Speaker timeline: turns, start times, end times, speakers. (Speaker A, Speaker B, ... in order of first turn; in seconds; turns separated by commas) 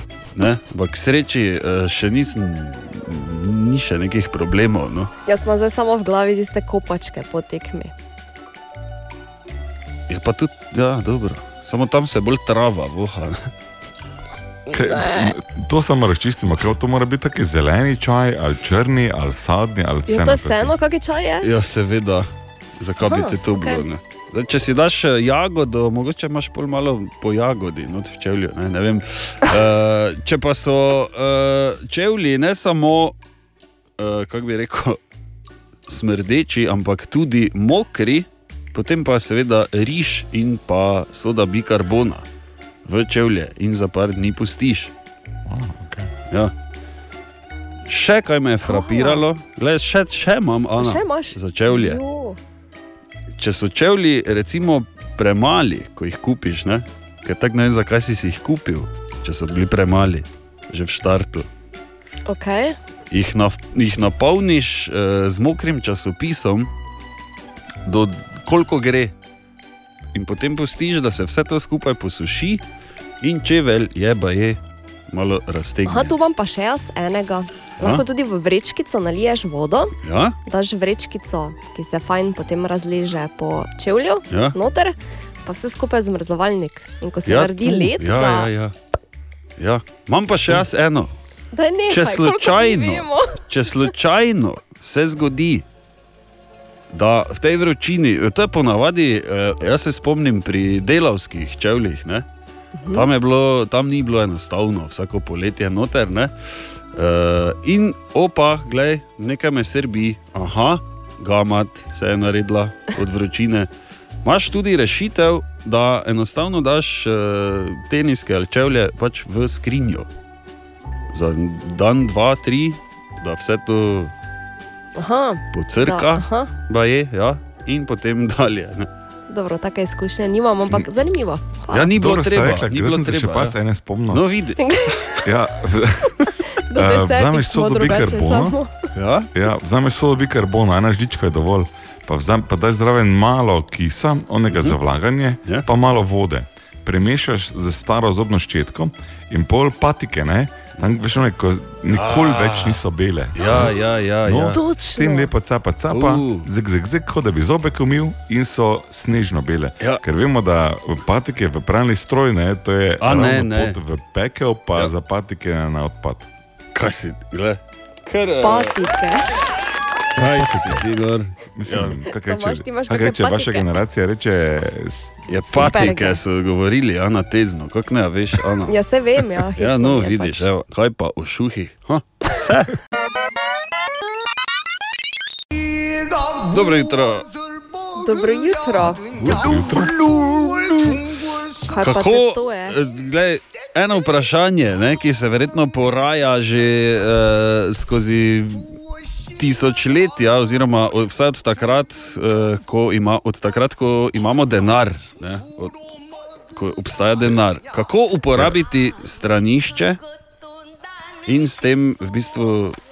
Speaker A: 0.3-5.1, Speaker B: 5.3-7.9, Speaker A: 10.1-13.5, Speaker B: 14.7-15.3, Speaker C: 14.7-20.8, Speaker B: 20.1-21.5, Speaker A: 21.4-22.3, Speaker A: 22.8-33.2, Speaker B: 23.0-23.8, Speaker A: 34.0-35.0, Speaker A: 35.9-42.2, Speaker A: 42.9-44.9, Speaker C: 45.5-46.1, Speaker A: 47.9-52.0, Speaker B: 48.7-49.3, Speaker B: 50.8-52.4, Speaker A: 53.4-61.5, Speaker B: 62.3-62.8, Speaker A: 63.1-66.7, Speaker A: 67.9-69.1, Speaker A: 70.1-72.6, Speaker A: 73.2-74.6, Speaker A: 75.1-76.1, Speaker B: 75.9-79.9, Speaker A: 80.0-80.4, Speaker B: 80.5-88.5, Speaker A: 84.3-84.5, Speaker A: 87.3-88.8, Speaker A: 89.6-91.1, Speaker B: 91.5-93.4, Speaker A: 91.9-95.7, Speaker A: 96.9-102.3, Speaker B: 102.8-103.1, Speaker A: 102.9-106.3, Speaker A: 107.0-113.7, Speaker A: 114.2-120.1, Speaker A: 121.1-124.1, Speaker B: 125.0-126.5, Speaker A: 125.5-128.9, Speaker B: 129.3-131.9, Speaker A: 131.7-133.6, Speaker C: 131.9-134.2, Speaker A: 134.1-135.2, Speaker B: 134.6-135.0, Speaker C: 135.2-136.1, Speaker B: 136.7-138.7, Speaker C: 136.8-138.6, Speaker A: 138.9-139.3, Speaker C: 139.3-153.7, Speaker A: 151.9-152.8, Speaker A: 153.4-154.6, Speaker C: 154.2-166.3, Speaker B: 154.5-155.3, Speaker A: 155.9-156.5, Speaker A: 163.0-163.8, Speaker A: 166.7-168.8, Speaker B: 168.4-169.3, Speaker A: 170.2-171.9, Speaker C: 170.2-170.9, Speaker C: 171.6-175.8, Speaker B: 172.2-173.7, Speaker A: 175.3-178.8, Speaker B: 175.5-176.2, Speaker B: 178.7-180.4, Speaker A: 179.6-182.7, Speaker A: 186.4-187.3, Speaker B: 188.0-189.2, Speaker C: 189.2-189.9, Speaker A: 189.2-189.8, Speaker B: 191.7-192.8, Speaker A: 191.8-198.7, Speaker A: 199.3-205.8, Speaker A: 206.5-210.0, Speaker A: 211.3-212.8